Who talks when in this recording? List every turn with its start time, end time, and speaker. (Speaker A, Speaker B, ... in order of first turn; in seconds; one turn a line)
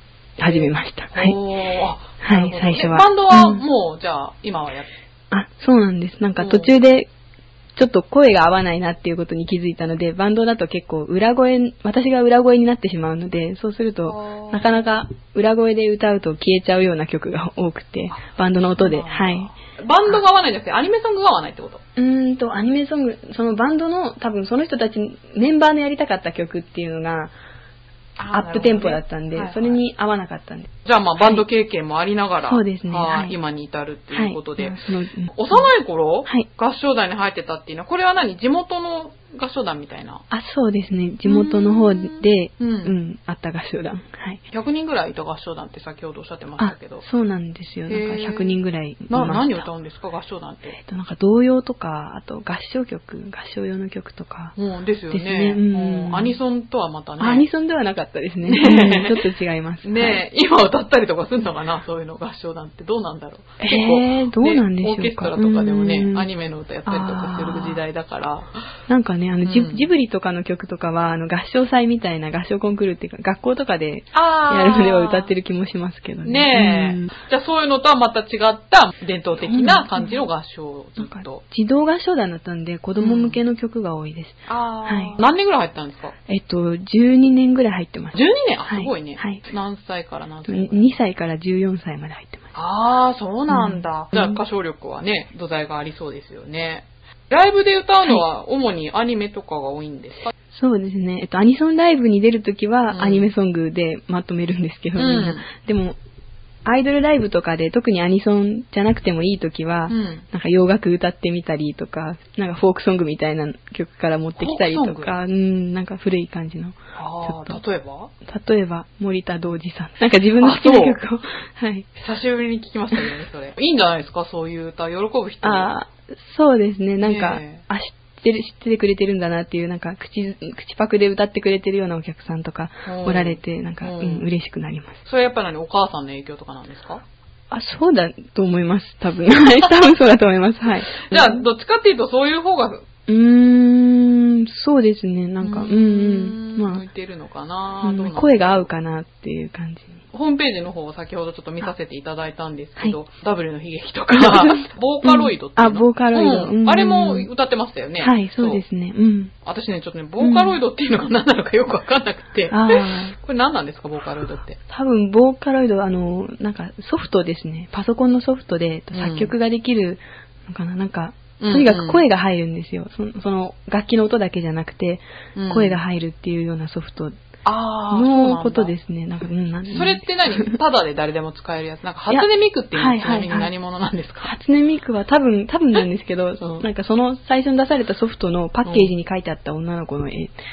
Speaker A: 0.4-1.4
Speaker B: 0.4-4.9
Speaker A: 2.2-3.6
Speaker A: 5.3-7.1
Speaker B: 6.4-6.7
Speaker A: 7.8-19.5
Speaker B: 14.0-14.8
Speaker B: 18.1-21.8
Speaker A: 21.9-27.3
Speaker B: 28.2-29.8
Speaker A: 28.3-30.7
Speaker B: 30.8-34.8
Speaker A: 32.5-33.3
Speaker A: 34.1-35.6
Speaker B: 35.3-40.2
Speaker A: 40.3-44.4
Speaker B: 41.2-42.9
Speaker B: 44.5-47.0
Speaker A: 46.6-49.6
Speaker B: 47.9-50.8
Speaker A: 50.7-54.5
Speaker B: 54.6-57.5
Speaker A: 55.1-56.3
Speaker A: 57.2-60.2
Speaker B: 58.4-59.3
Speaker B: 59.8-68.6
Speaker A: 63.6-66.3
Speaker A: 66.8-67.8
Speaker A: 68.9-77.1
Speaker B: 69.4-69.8
Speaker B: 74.1-75.3
Speaker B: 76.2-81.4
Speaker A: 79.4-80.2
Speaker A: 81.0-85.2
Speaker B: 83.0-83.4
Speaker B: 84.5-86.2
Speaker A: 86.3-89.4
Speaker B: 88.1-90.9
Speaker A: 90.5-92.5
Speaker B: 92.5-100.3
Speaker A: 93.5-94.4
Speaker A: 100.5-106.0
Speaker B: 102.9-103.3
Speaker B: 105.0-105.5
Speaker A: 106.6-117.6
Speaker B: 109.9-110.2
Speaker B: 114.4-115.1
Speaker B: 117.0-118.1
Speaker A: 118.2-121.9
Speaker B: 120.4-121.0
Speaker B: 122.0-125.7
Speaker A: 125.4-135.0
Speaker B: 127.0-127.6
Speaker B: 132.8-134.2
Speaker B: 135.0-137.0
Speaker A: 137.5-141.4
Speaker B: 141.0-142.8
Speaker A: 143.1-146.8
Speaker B: 145.4-148.7
Speaker A: 147.8-150.0
Speaker B: 150.1-158.6
Speaker A: 154.1-157.3
Speaker A: 158.0-159.3
Speaker B: 159.4-164.6
Speaker A: 160.2-160.6
Speaker A: 162.5-163.2
Speaker A: 164.7-177.2
Speaker B: 168.9-169.3
Speaker B: 171.4-172.0
Speaker B: 175.3-175.8
Speaker B: 177.4-178.7
Speaker A: 177.9-180.5
Speaker B: 179.7-184.3
Speaker A: 182.1-183.5
Speaker A: 184.2-190.3
Speaker B: 186.4-186.6
Speaker B: 188.6-188.9